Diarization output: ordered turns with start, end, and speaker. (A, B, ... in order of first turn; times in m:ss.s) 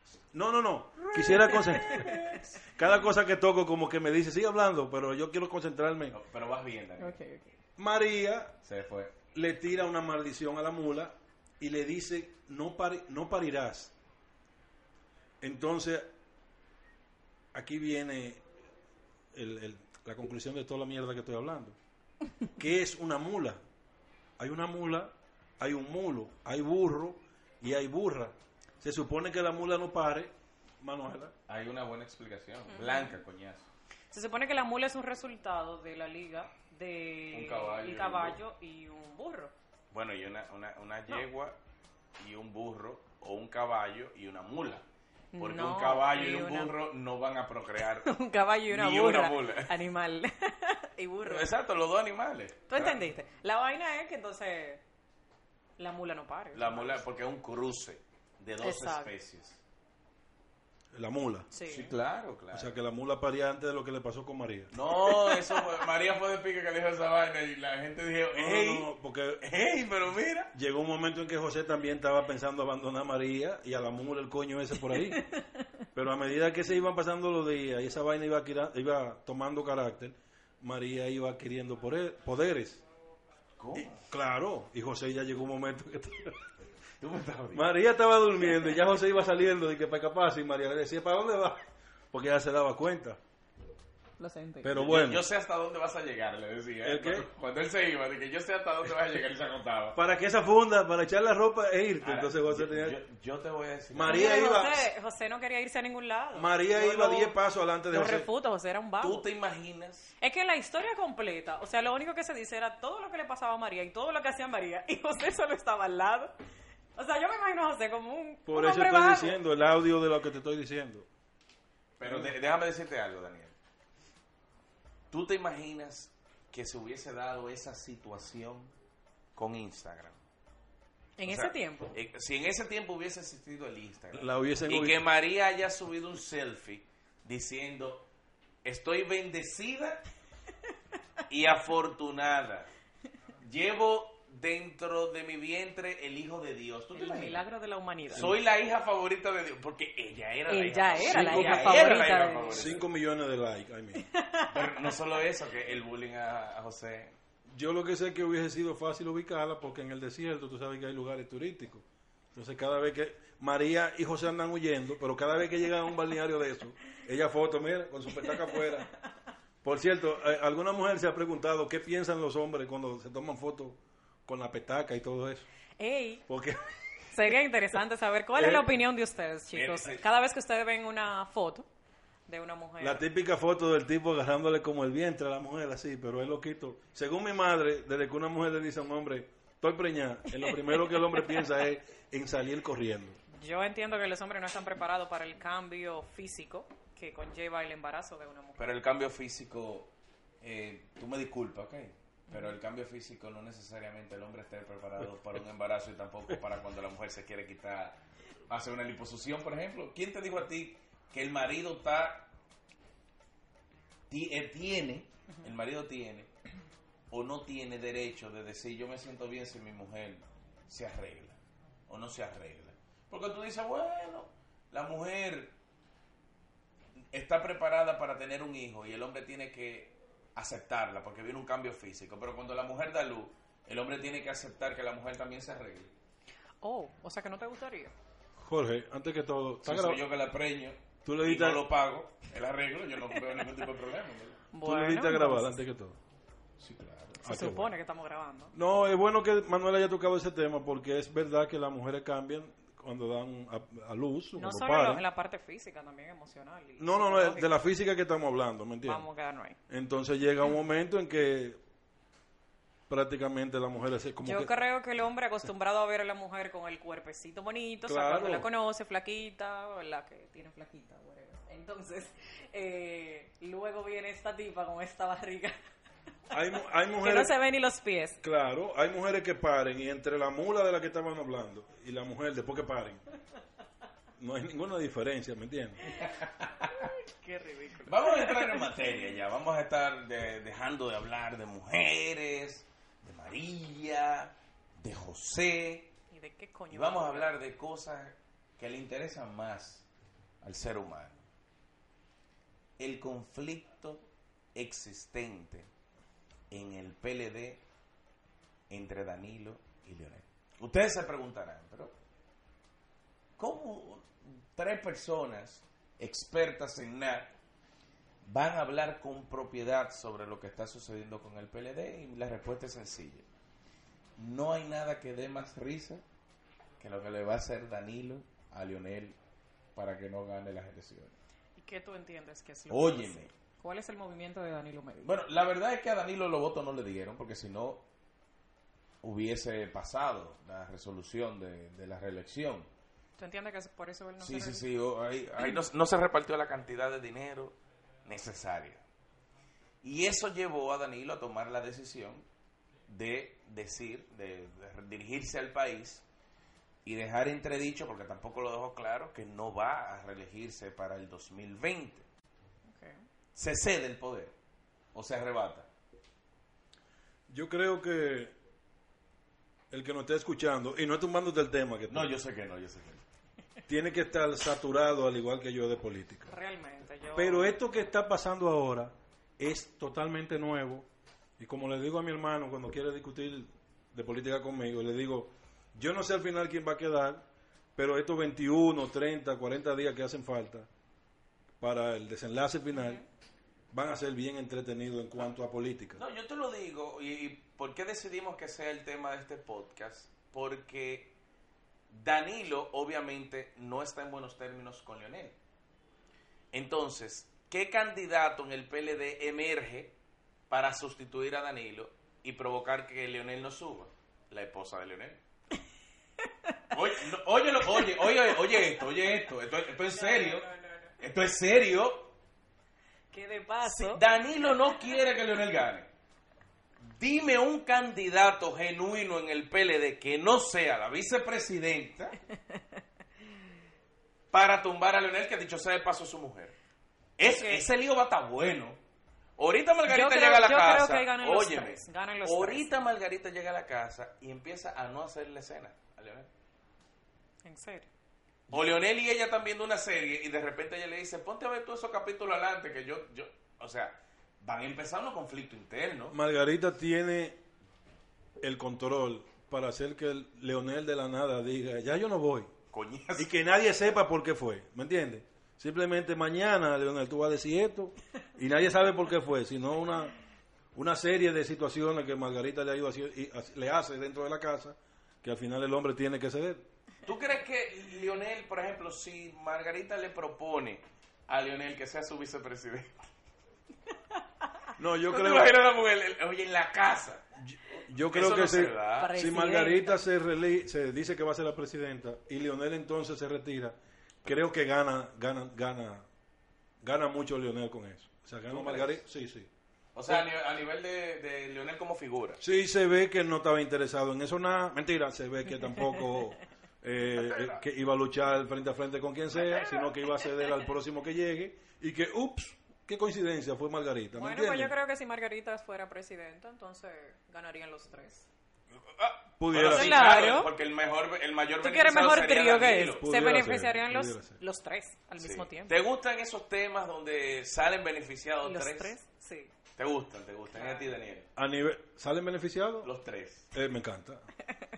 0:00.3-0:06.2 A
0:01.0-0:02.6 B
0:01.9-0:02.4 C
0:06.1-0:07.2 C
0:07.0-0:07.5 B
0:07.8-0:08.6 A
0:08.6-0:09.1 C
0:09.3-0:13.9 A
0:15.4-0:16.1 A
0:17.5-0:18.4 A
0:19.3-0:21.8 A
0:22.6-0:23.6 A
0:24.4-0:31.3 A
0:31.5-0:33.7 C
0:32.7-0:33.2 B
0:34.1-0:39.5 B
0:37.3-0:38.4 C
0:39.9-0:41.6 C
0:42.2-0:44.8 C
0:45.3-0:46.7 B
0:45.4-0:48.1 C
0:47.8-0:51.5 B
0:48.7-0:49.7 C
0:51.2-0:53.0 C
0:52.7-0:54.8 B
0:55.8-0:57.0 B
0:56.5-0:59.6 C
0:58.6-0:59.1 B
1:00.9-1:01.5 A
1:01.5-1:01.9 B
1:01.6-1:02.8 C
1:02.5-1:04.7 A
1:04.7-1:08.9 C
1:05.0-1:05.6 B
1:08.3-1:09.4 A
1:09.4-1:10.5 C
1:10.5-1:15.2 A
1:14.8-1:15.6 B
1:15.9-1:22.8 A
1:23.6-1:24.0 C
1:23.7-1:26.3 A
1:27.0-1:27.7 C
1:27.5-1:33.2 A
1:34.2-1:34.7 B
1:34.6-1:35.2 A
1:34.7-1:40.0 C
1:36.8-1:37.2 A
1:39.9-1:43.0 A
1:42.0-1:44.2 C
1:43.9-1:44.9 A
1:44.1-1:47.4 B
1:46.3-1:48.3 A
1:47.9-1:49.2 B
1:49.0-1:50.1 C
1:50.2-1:56.3 B
1:57.0-1:59.4 B
1:58.5-2:01.1 A
2:02.0-2:03.5 C
2:02.0-2:02.3 A
2:05.1-2:08.7 C
2:09.4-2:10.2 C
2:11.2-2:11.9 B
2:11.2-2:18.1 C
2:14.1-2:15.0 A
2:18.6-2:20.0 C
2:21.3-2:22.7 C
2:23.4-2:27.4 C
2:26.9-2:28.3 B
2:28.1-2:32.9 C
2:30.5-2:32.7 B
2:31.1-2:31.7 A
2:32.5-2:34.0 A
2:34.0-2:35.0 B
2:34.5-2:37.1 C
2:37.5-2:48.9 A
2:48.2-2:48.8 B
2:49.6-2:55.4 A
2:55.8-2:56.2 B
2:56.3-2:56.6 A
2:57.1-3:01.7 B
2:58.3-2:58.7 A
2:59.5-3:00.0 C
3:02.3-3:03.0 B
3:02.8-3:13.2 A
3:10.3-3:11.3 B
3:13.4-3:18.8 B
3:18.6-3:32.3 C
3:22.3-3:22.5 B
3:34.1-3:36.3 C
3:37.1-3:45.6 C
3:47.1-3:55.9 C
3:56.6-3:57.9 B
3:58.4-4:00.0 A
3:59.6-4:04.4 C
4:01.0-4:01.6 A
4:04.5-4:05.6 B
4:04.6-4:06.0 A
4:06.6-4:07.4 C
4:07.2-4:07.7 A
4:07.2-4:08.5 B
4:08.5-4:15.0 A
4:14.4-4:17.5 B
4:16.8-4:19.0 A
4:18.8-4:19.6 B
4:19.7-4:21.6 A
4:22.9-4:24.5 A
4:24.2-4:35.6 B
4:27.8-4:28.5 A
4:36.3-4:37.3 A
4:37.0-4:38.2 B
4:38.2-4:43.0 A
4:44.2-4:45.8 A
4:45.9-4:46.7 C
4:46.6-4:49.1 B
4:47.8-4:55.9 C
4:56.1-4:57.3 B
4:56.7-4:59.9 C
5:00.4-5:01.2 C
5:02.8-5:04.0 C
5:04.5-5:05.7 C
5:06.5-5:07.6 C
5:08.7-5:11.9 C
5:13.4-5:17.3 C
5:18.2-5:23.2 C
5:24.2-5:26.0 C
5:26.8-5:29.2 C
5:29.8-5:31.2 C
5:31.6-5:35.2 B
5:32.7-5:33.3 C
5:35.0-5:37.8 C
5:39.0-5:42.7 C
5:43.2-5:44.6 B
5:44.2-5:48.8 C
5:49.8-5:52.2 C
5:52.9-5:56.0 C
5:56.8-6:02.0 C
6:02.7-6:03.0 B
6:03.3-6:04.3 C
6:04.9-6:05.7 C
6:07.3-6:08.3 A
6:09.7-6:12.1 A
6:11.9-6:13.0 C
6:13.7-6:16.3 A
6:16.3-6:17.5 B
6:17.1-6:20.9 A
6:21.4-6:27.2 A
6:27.8-6:30.7 A
6:31.6-6:33.0 A
6:32.7-6:33.0 B
6:33.7-6:36.0 A
6:35.9-6:41.1 C
6:41.9-6:45.4 C
6:46.5-6:49.9 C
6:50.5-6:55.2 C
6:56.7-7:00.4 C
6:59.8-7:00.9 B
7:01.0-7:02.1 C
7:03.1-7:04.0 B
7:03.6-7:05.9 C
7:06.8-7:12.2 C
7:14.3-7:16.5 C
7:17.2-7:18.8 C
7:17.2-7:17.6 B
7:19.4-7:26.3 C
7:19.8-7:22.9 B
7:27.4-7:27.9 B
7:28.5-7:36.2 C
7:36.1-7:37.4 A
7:38.4-7:42.5 A
7:42.7-7:43.3 C
7:43.2-7:50.1 A
7:50.7-7:56.6 A
7:57.0-8:03.0 C
8:04.8-8:05.5 A
8:05.0-8:07.2 C
8:07.4-8:16.0 A
8:08.1-8:09.1 C
8:09.0-8:10.0 B
8:16.8-8:19.5 A
8:18.5-8:19.0 C
8:19.9-8:22.4 C
8:22.4-8:34.7 A
8:25.6-8:26.2 B
8:27.3-8:27.6 C
8:34.1-8:38.3 B
8:38.9-8:43.0 C
8:39.4-8:40.0 A
8:39.7-8:40.5 B
8:41.6-8:45.8 B
8:43.0-8:44.4 A
8:45.2-8:48.9 C
8:48.4-8:49.5 B
8:49.8-8:51.3 C
8:50.5-8:50.9 B
8:51.4-8:52.9 A
8:52.8-8:53.5 C
8:53.5-8:54.2 A